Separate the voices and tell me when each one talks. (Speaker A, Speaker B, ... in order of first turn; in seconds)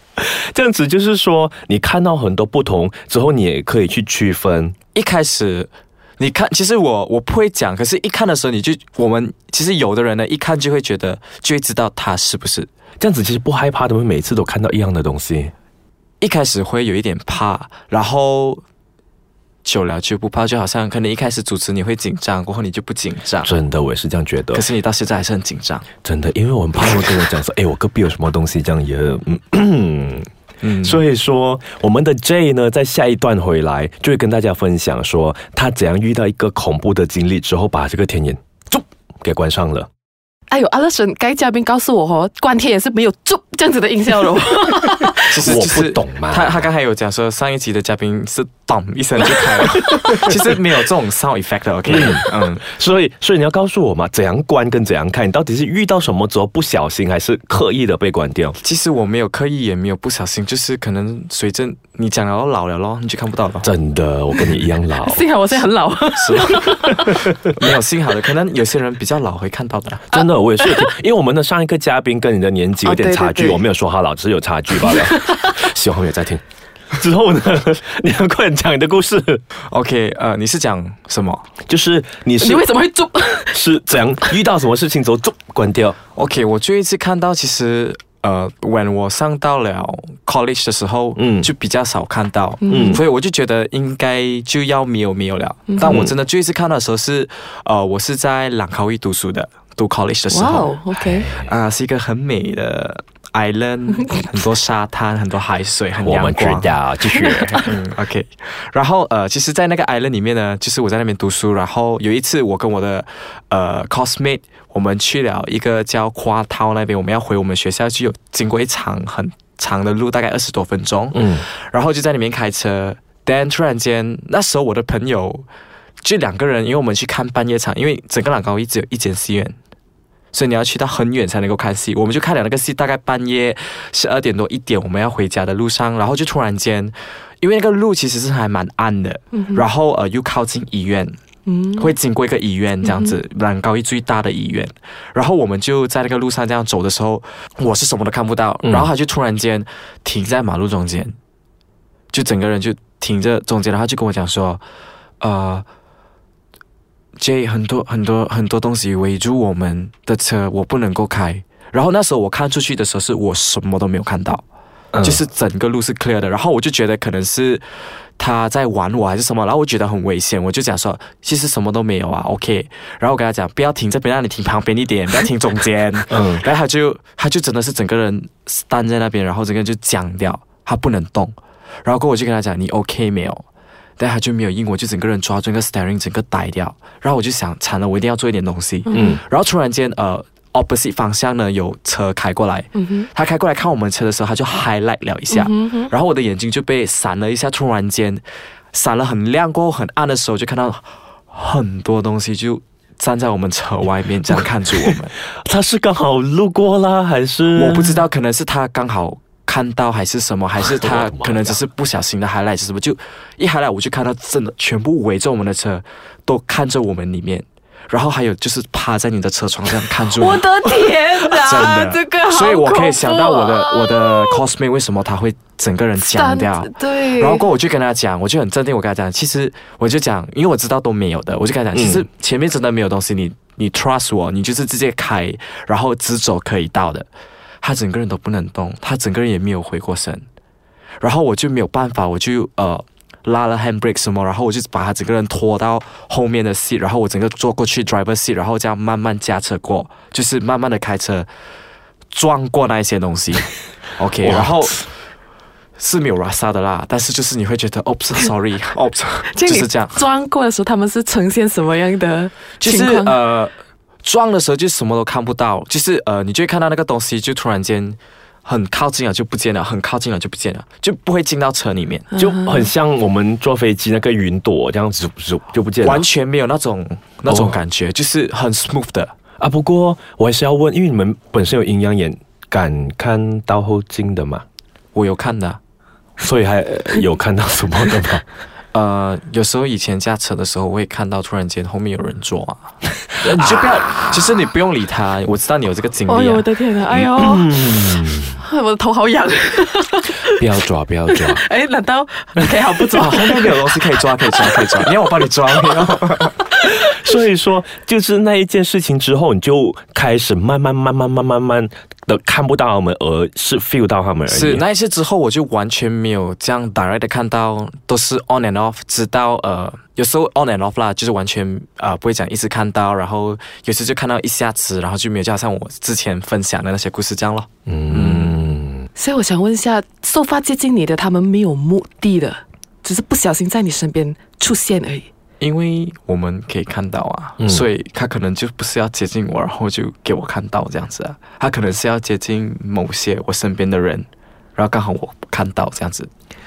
Speaker A: 0.2-4.8, 13.0-15.5, 23.4-24.6, 26.0-30.3, 30.8-39.9, 45.4-46.7, 51.9-58.6, 63.6-65.2, 70.1-76.4, 77.0-79.4, 81.7-82.7, 83.5-86.0, 91.2-91.5, 92.7-93.0, 95.8-96.1, 101.1-101.5, 106.0-107.7, 121.1-121.4, 148.6-148.9, 176.1-176.4, 188.9-189.2, 205.4-208.0, 210.6-211.6, 231.7-232.1, 254.2-254.5, 272.2-276.1, 277.3-277.6, 279.4-284.4, 286.2-288.2, 293.3-294.0, 296.9-298.4, 300.4-301.4, 306.5-314.6, 327.7-328.9
Speaker B: 4.9-12.7, 16.2-18.6, 19.6-23.5, 24.5-25.9, 30.6-31.0, 45.3-52.6, 58.6-63.7, 66.1-70.1, 79.7-81.4, 86.1-100.7, 101.3-106.8, 107.3-125.5, 126.0-129.6, 130.3-141.2, 141.8-151.1, 152.1-154.6, 155.2-155.7, 157.2-164.4, 165.0-167.6, 168.2-183.4, 184.0-205.1, 207.5-237.1, 237.6-240.2, 241.0-251.3, 252.1-254.9, 255.8-260.0, 262.6-263.5, 264.0-272.1, 275.8-279.1, 284.9-285.6, 288.7-296.5, 302.9-306.4, 314.3-328.4, 335.4-346.1
Speaker C: 40.5-45.4, 65.0-67.1, 70.6-70.9, 72.8-73.7, 74.8-75.5, 82.4-83.6, 92.6-93.0, 95.7-96.0, 100.3-101.3, 104.0-104.2, 107.2-107.5, 139.3-139.6, 141.5-141.9, 142.8-143.1, 188.9-189.2, 192.8-193.1, 195.3-195.9, 220.1-224.4, 226.0-227.5, 259.3-263.2, 272.1-272.7, 296.1-300.4, 301.1-304.6, 328.9-335.1